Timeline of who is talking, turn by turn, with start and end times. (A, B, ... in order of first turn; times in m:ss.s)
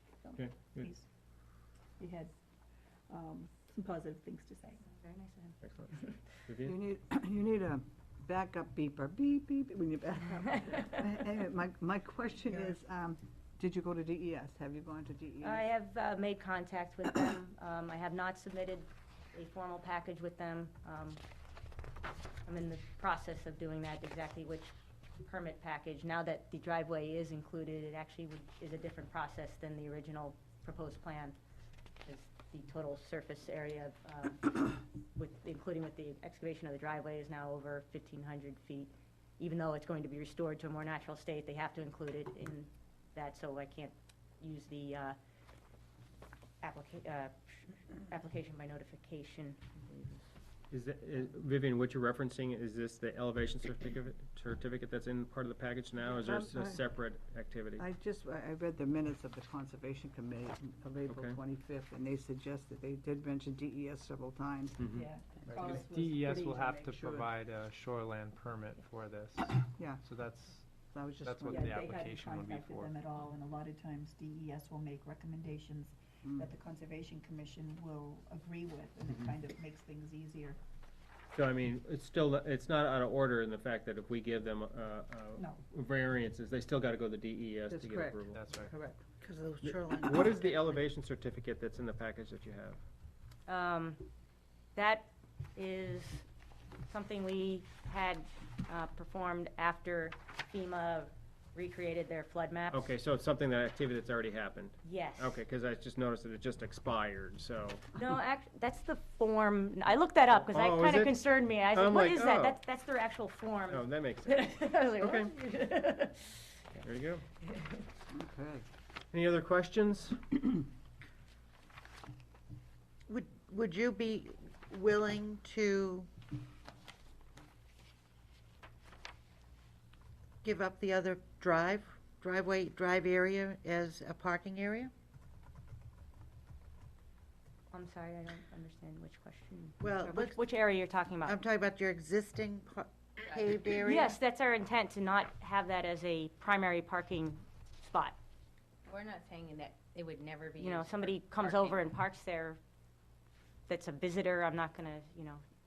0:00.2-0:01.1 A
0:00.4-0:00.9 B
0:02.0-0:02.3 A
0:03.1-0:04.8 A
0:04.8-0:06.2 C
0:05.6-0:06.8 B
0:06.6-0:15.6 D
0:15.4-0:21.2 C
0:22.4-0:31.4 C
0:32.0-0:45.2 C
0:46.6-0:50.3 C
0:50.7-0:57.8 B
0:56.0-0:56.9 D
0:57.8-1:05.6 D
1:01.1-1:01.4 B
1:04.8-1:05.1 B
1:05.0-1:06.7 A
1:05.5-1:13.0 E
1:06.8-1:07.3 D
1:09.6-1:10.0 D
1:10.8-1:11.7 D
1:11.5-1:20.6 A
1:16.2-1:16.5 D
1:21.3-1:28.5 B
1:27.7-1:29.0 D
1:28.3-1:28.7 E
1:29.2-1:30.5 F
1:29.6-1:32.8 B
1:33.5-1:34.0 C
1:34.7-1:36.2 C
1:36.9-1:42.9 C
1:42.7-1:47.8 B
1:44.8-1:45.4 C
1:48.0-1:56.6 C
1:50.3-1:52.6 B
1:53.7-1:55.3 B
1:56.8-1:57.2 B
1:57.5-1:57.8 C
1:58.1-1:58.6 D
1:59.1-2:00.2 B
2:03.1-2:06.1 F
2:10.4-2:14.9 F
2:17.7-2:21.4 C
2:19.8-2:20.4 F
2:21.2-2:24.2 F
2:23.8-2:28.2 C
2:28.9-2:31.8 G
2:30.6-2:32.6 C
2:33.7-2:35.4 C